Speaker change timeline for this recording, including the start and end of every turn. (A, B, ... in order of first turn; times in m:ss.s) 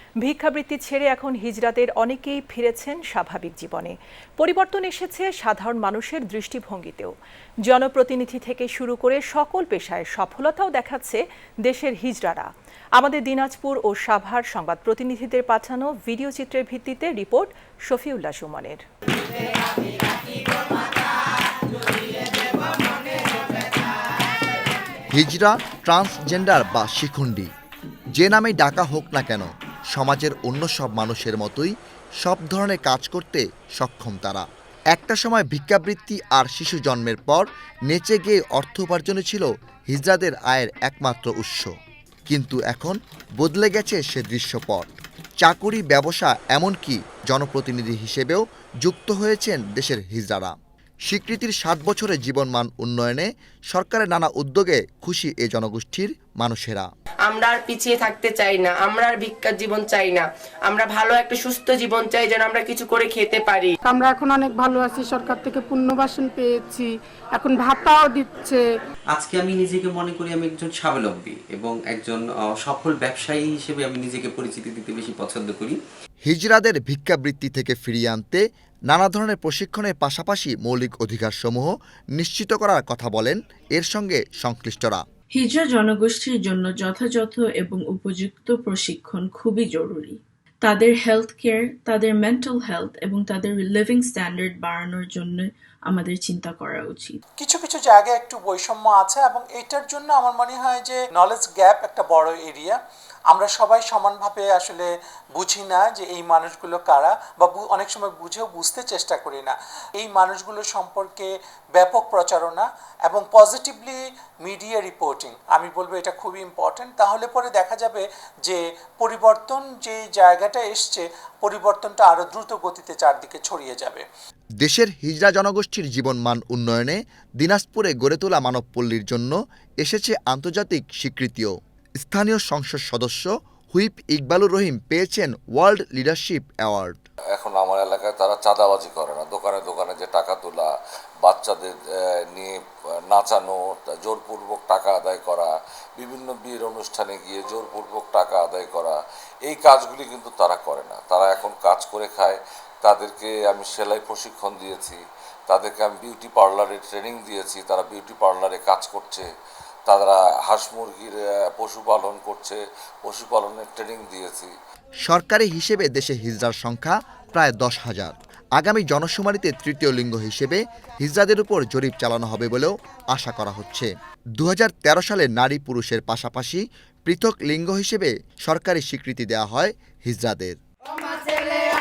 0:00.2-0:07.1 A
0:07.6-0:18.8 A
0:25.1-0:27.5 B
0:28.2-0:41.7 B
0:42.3-0:50.5 B
0:51.1-0:56.9 B
0:57.2-1:03.8 C
1:03.8-1:08.6 D
1:09.2-1:15.8 E
1:16.2-1:25.0 B
1:25.4-1:37.2 F
1:37.4-1:42.8 G
1:43.3-2:04.0 G
2:04.6-2:17.0 B
2:17.3-2:20.7 H
2:21.2-2:21.8 H
2:23.1-2:39.3 H
2:39.8-2:44.5 H
2:45.0-3:00.6 B